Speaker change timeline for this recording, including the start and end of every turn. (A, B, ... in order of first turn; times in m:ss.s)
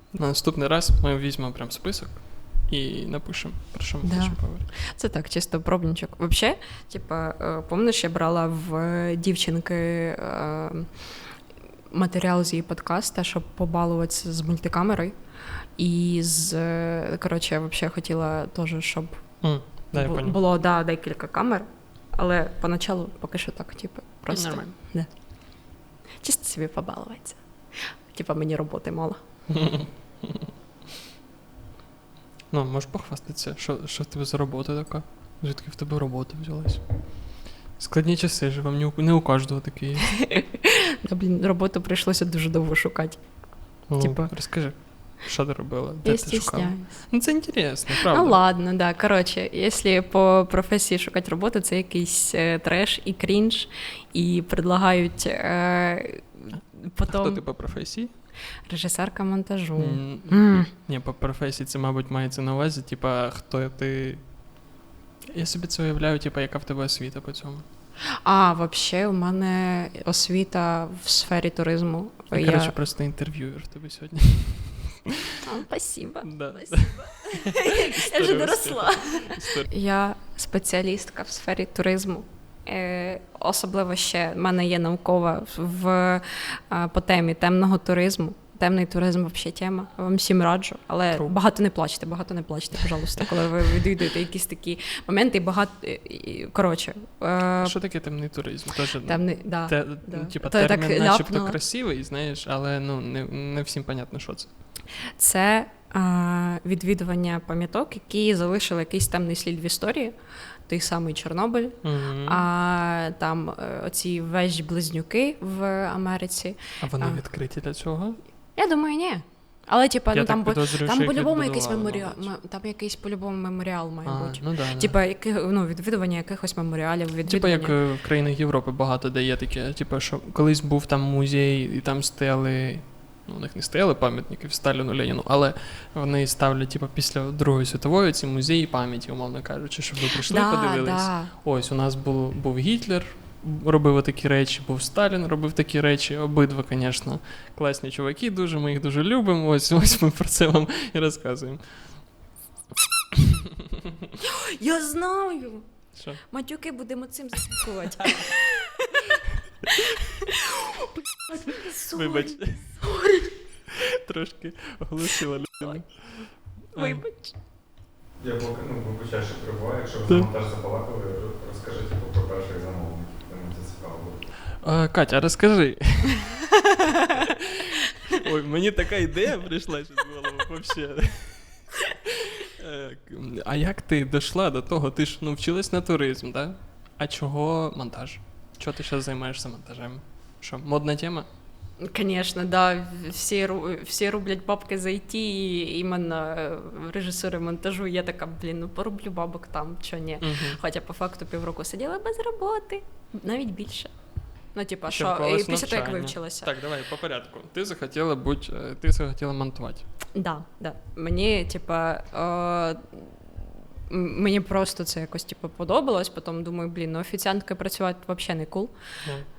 0:00.1-0:04.7 A
0:04.0-0:11.1 B
0:11.9-0:15.1 B
0:15.8-0:29.2 B
0:19.4-0:20.4 A
0:24.3-0:24.7 A
0:29.5-0:30.4 A
0:32.5-0:40.3 A
0:40.2-0:44.8 B
0:43.9-0:48.4 A
0:46.0-0:57.7 B
0:57.0-0:58.1 A
0:58.7-1:00.7 B
0:59.8-1:04.6 A
1:05.3-1:07.6 A
1:08.2-1:12.7 B
1:12.3-1:15.0 A
1:15.4-1:37.8 B
1:16.2-1:19.7 A
1:37.6-1:44.5 A
1:39.0-1:41.6 B
1:45.1-1:50.1 B
1:50.6-1:57.2 B
1:51.8-1:52.4 A
1:56.8-1:58.2 A
1:58.5-2:07.7 B
2:00.1-2:02.3 A
2:04.0-2:04.9 A
2:07.2-2:32.2 A
2:20.2-2:21.3 B
2:34.2-2:39.0 B
2:35.9-2:36.2 A
2:39.8-2:43.3 B
2:41.9-2:42.9 A
2:43.7-2:47.0 A
2:45.6-2:47.3 B
2:48.2-2:54.2 C
2:54.6-2:56.4 A
2:57.1-3:11.2 A
3:11.8-3:23.9 B
3:20.2-3:20.6 A
3:24.5-3:26.5 B
3:24.9-3:29.9 A
3:30.1-3:38.7 B